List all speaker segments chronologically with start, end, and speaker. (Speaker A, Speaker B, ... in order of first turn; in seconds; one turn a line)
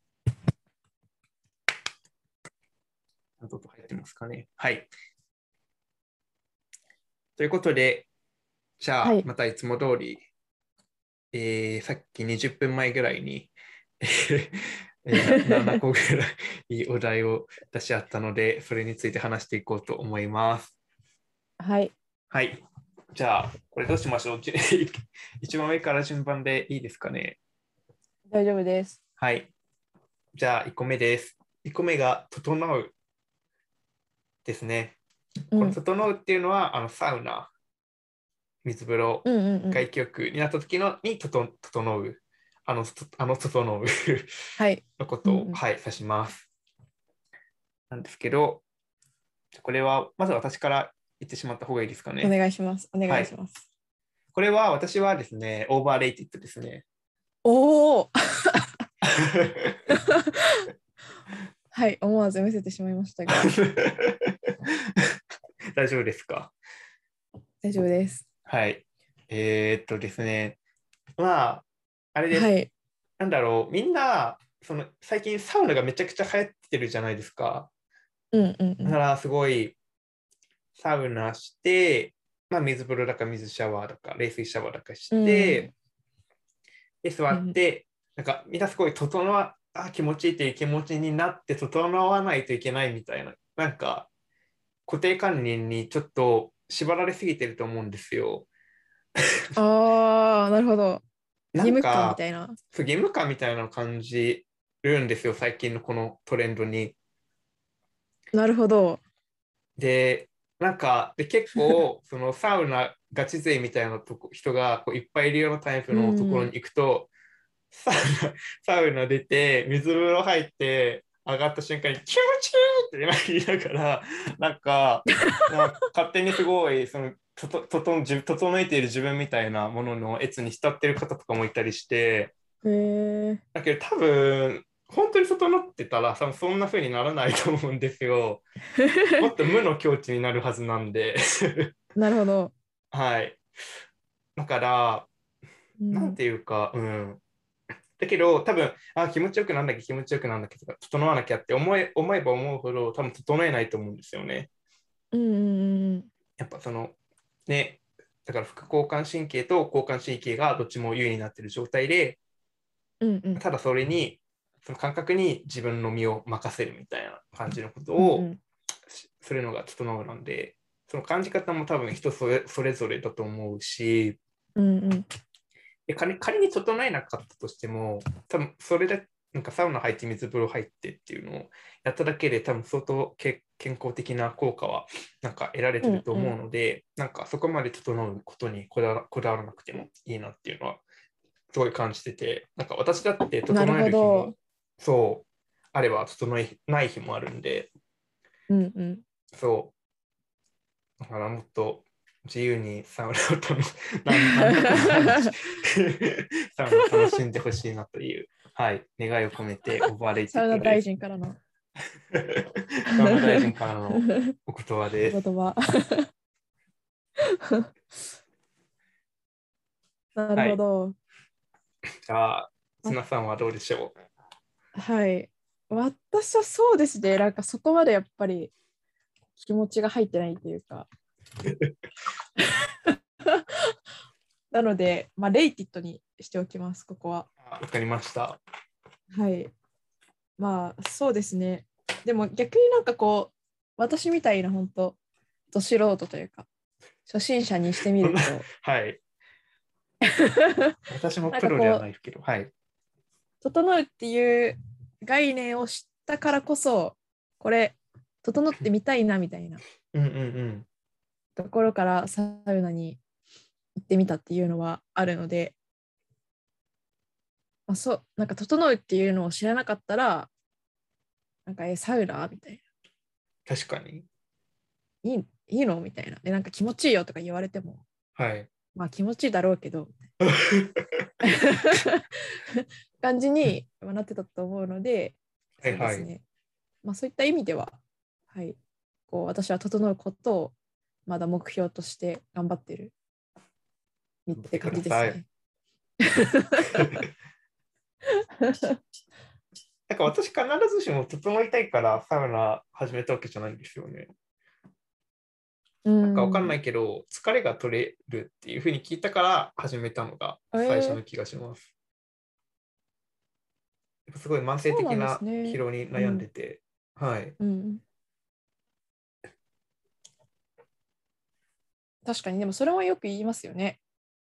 Speaker A: 3.4-4.9
Speaker A: 7.4-8.1
Speaker A: 8.8-10.2
Speaker A: 11.3-20.8
Speaker B: 15.1-15.8
Speaker B: 21.6-21.9
Speaker A: 22.3-22.6
Speaker A: 23.1-27.4
Speaker B: 28.3-29.0
Speaker A: 29.2-29.5
Speaker A: 30.3-32.9
Speaker A: 34.4-35.0
Speaker B: 35.5-35.8
Speaker A: 35.5-37.5
Speaker A: 38.6-44.3
Speaker B: 39.2-39.9
Speaker B: 44.6-45.6
Speaker A: 45.0-46.5
Speaker A: 47.9-48.6
Speaker A: 49.5-52.3
Speaker B: 52.2-53.6
Speaker A: 53.1-53.3
Speaker A: 54.3-56.8
Speaker B: 57.4-58.8
Speaker A: 59.0-59.8
Speaker B: 59.9-60.7
Speaker B: 61.7-63.5
Speaker A: 63.3-65.2
Speaker A: 65.7-66.5
Speaker B: 67.6-68.2
Speaker A: 68.5-70.6
Speaker A: 71.2-72.5
Speaker B: 72.3-72.7
Speaker A: 73.2-77.7
Speaker B: 78.3-79.0
Speaker A: 78.8-79.8
Speaker A: 80.8-85.7
Speaker B: 85.1-85.7
Speaker A: 87.0-94.1
Speaker B: 87.3-87.6
Speaker A: 94.9-98.5
Speaker B: 99.5-101.0
Speaker A: 101.5-102.2
Speaker B: 101.6-102.6
Speaker A: 102.7-107.0
Speaker B: 108.3-109.0
Speaker A: 109.8-117.1
Speaker B: 115.9-116.5
Speaker A: 117.7-132.3
Speaker B: 132.6-133.4
Speaker A: 133.5-138.4
Speaker B: 138.8-139.3
Speaker A: 139.2-141.7
Speaker B: 141.9-142.5
Speaker A: 142.9-143.4
Speaker A: 144.3-145.1
Speaker B: 145.8-146.2
Speaker A: 145.9-147.2
Speaker A: 148.0-154.5
Speaker B: 155.1-156.1
Speaker A: 156.4-156.9
Speaker A: 157.5-162.2
Speaker B: 163.0-163.4
Speaker A: 163.4-168.3
Speaker B: 168.0-168.4
Speaker A: 168.9-174.2
Speaker B: 174.6-175.1
Speaker A: 175.9-190.8
Speaker B: 185.8-186.3
Speaker A: 191.5-197.7
Speaker B: 193.5-194.3
Speaker B: 198.5-199.0
Speaker A: 199.3-199.7
Speaker A: 201.0-210.8
Speaker B: 204.1-205.3
Speaker B: 206.7-207.2
Speaker B: 210.3-211.4
Speaker A: 212.1-215.2
Speaker B: 212.9-214.3
Speaker B: 215.1-216.1
Speaker B: 220.2-220.9
Speaker A: 220.3-220.6
Speaker A: 222.1-223.9
Speaker B: 224.7-228.5
Speaker B: 229.4-230.9
Speaker A: 231.4-231.7
Speaker B: 232.4-233.4
Speaker B: 234.5-237.3
Speaker A: 237.4-238.4
Speaker B: 239.1-239.5
Speaker B: 240.4-245.0
Speaker B: 245.5-246.5
Speaker B: 247.1-248.4
Speaker A: 248.0-249.0
Speaker B: 250.0-250.8
Speaker A: 250.9-252.5
Speaker B: 251.3-251.8
Speaker B: 253.4-259.6
Speaker A: 259.9-260.7
Speaker B: 261.4-263.0
Speaker B: 263.7-265.6
Speaker B: 267.7-270.3
Speaker B: 271.4-272.6
Speaker A: 273.5-274.1
Speaker B: 275.0-277.8
Speaker A: 278.1-278.5
Speaker B: 278.7-279.9
Speaker A: 280.2-281.1
Speaker B: 281.2-286.2
Speaker A: 285.6-286.1
Speaker B: 286.8-287.8
Speaker B: 288.3-288.6
Speaker B: 289.1-290.5
Speaker B: 291.1-292.9
Speaker B: 294.3-295.2
Speaker A: 294.4-295.2
Speaker B: 296.0-296.9
Speaker A: 296.7-297.0
Speaker B: 298.2-298.8
Speaker A: 299.9-304.1
Speaker B: 305.8-306.5
Speaker A: 306.0-311.7
Speaker B: 310.5-311.0
Speaker A: 314.1-317.4
Speaker B: 314.7-316.3
Speaker B: 317.4-317.8
Speaker B: 322.0-323.8